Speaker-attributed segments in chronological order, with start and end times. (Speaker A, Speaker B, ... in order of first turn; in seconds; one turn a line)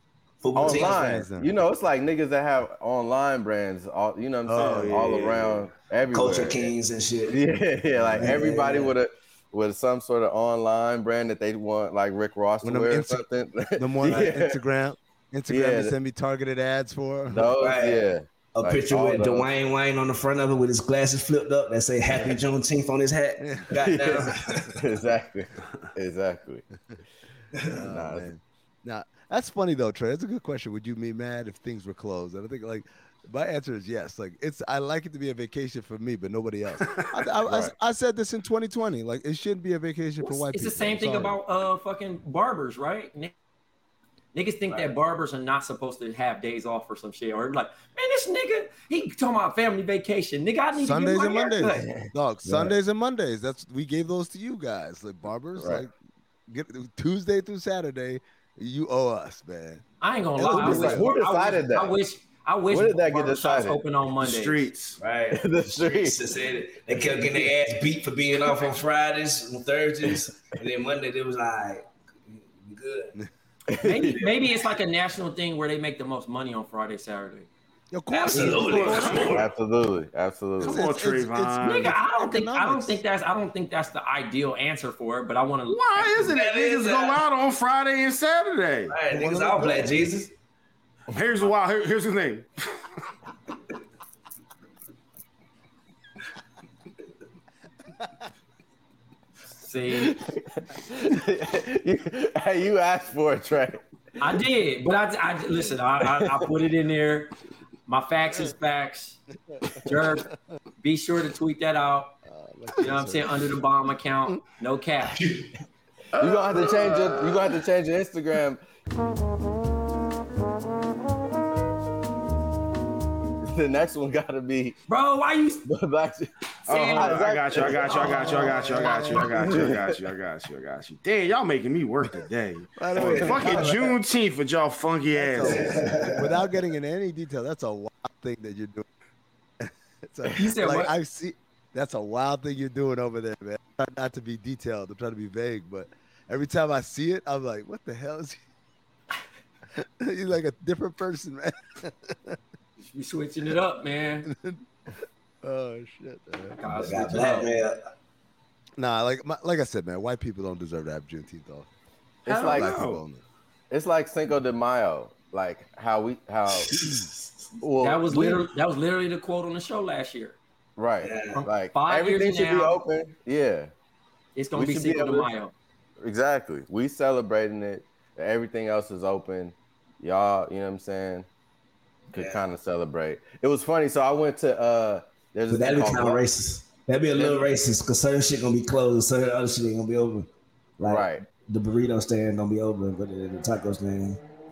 Speaker A: 0.4-1.1
Speaker B: 0.6-1.5
Speaker C: 0.6-6.7
Speaker B: 4.5-5.2
Speaker D: 4.6-5.7
Speaker A: 6.1-7.4
Speaker C: 7.3-14.6
Speaker B: 8.0-8.6
Speaker A: 8.1-9.0
Speaker B: 12.6-13.2
Speaker B: 13.8-17.6
Speaker C: 15.5-15.9
Speaker C: 17.3-19.5
Speaker A: 17.6-24.7
Speaker B: 23.4-23.8
Speaker C: 23.8-26.6
Speaker B: 27.8-41.4
Speaker C: 27.9-28.3
Speaker E: 40.2-43.3
Speaker E: 44.3-51.9
Speaker B: 50.8-55.9
Speaker C: 51.6-52.8
Speaker C: 55.6-55.9
Speaker B: 56.5-59.8
Speaker E: 60.0-64.7
Speaker C: 60.4-62.0
Speaker B: 60.6-61.1
Speaker C: 62.7-63.8
Speaker D: 64.2-65.0
Speaker A: 65.0-73.2
Speaker C: 65.3-66.2
Speaker C: 73.7-74.3
Speaker E: 73.8-77.5
Speaker B: 77.9-79.3
Speaker A: 78.1-79.5
Speaker D: 78.4-79.3
Speaker C: 79.3-80.9
Speaker D: 80.6-82.0
Speaker B: 80.6-83.0
Speaker E: 81.6-86.3
Speaker D: 85.7-88.9
Speaker A: 86.2-87.2
Speaker A: 88.9-90.3
Speaker B: 89.1-90.0
Speaker D: 91.1-92.5
Speaker E: 99.6-100.2
Speaker C: 100.0-103.8
Speaker E: 104.2-107.3
Speaker E: 107.9-109.2
Speaker E: 109.8-112.2
Speaker B: 112.2-113.6
Speaker E: 112.8-115.2
Speaker A: 115.2-115.5
Speaker D: 116.1-117.5
Speaker C: 116.2-118.6
Speaker C: 123.5-124.8
Speaker E: 124.9-125.7
Speaker C: 125.7-130.0
Speaker D: 126.7-135.8
Speaker E: 126.7-127.2
Speaker E: 127.9-128.3
Speaker B: 128.0-129.7
Speaker B: 132.8-133.6
Speaker A: 133.0-133.8
Speaker C: 133.2-133.8
Speaker B: 135.2-138.8
Speaker A: 135.4-136.3
Speaker B: 139.6-148.4
Speaker E: 140.3-140.9
Speaker B: 149.8-152.4
Speaker E: 152.8-154.3
Speaker B: 154.3-154.7
Speaker B: 155.4-156.6
Speaker E: 156.6-157.6
Speaker A: 156.7-157.8
Speaker B: 158.8-161.7
Speaker C: 162.3-162.7
Speaker E: 162.3-162.9
Speaker B: 162.5-163.2
Speaker D: 162.6-162.9
Speaker C: 163.7-168.5
Speaker A: 166.7-167.0
Speaker E: 167.8-170.4
Speaker C: 170.8-173.7
Speaker A: 171.0-171.4
Speaker E: 171.3-172.8
Speaker E: 174.3-175.5
Speaker C: 174.5-175.3
Speaker C: 176.0-181.3
Speaker A: 182.1-182.4
Speaker C: 182.1-186.2
Speaker A: 185.5-194.2
Speaker C: 187.2-187.4
Speaker C: 190.8-191.3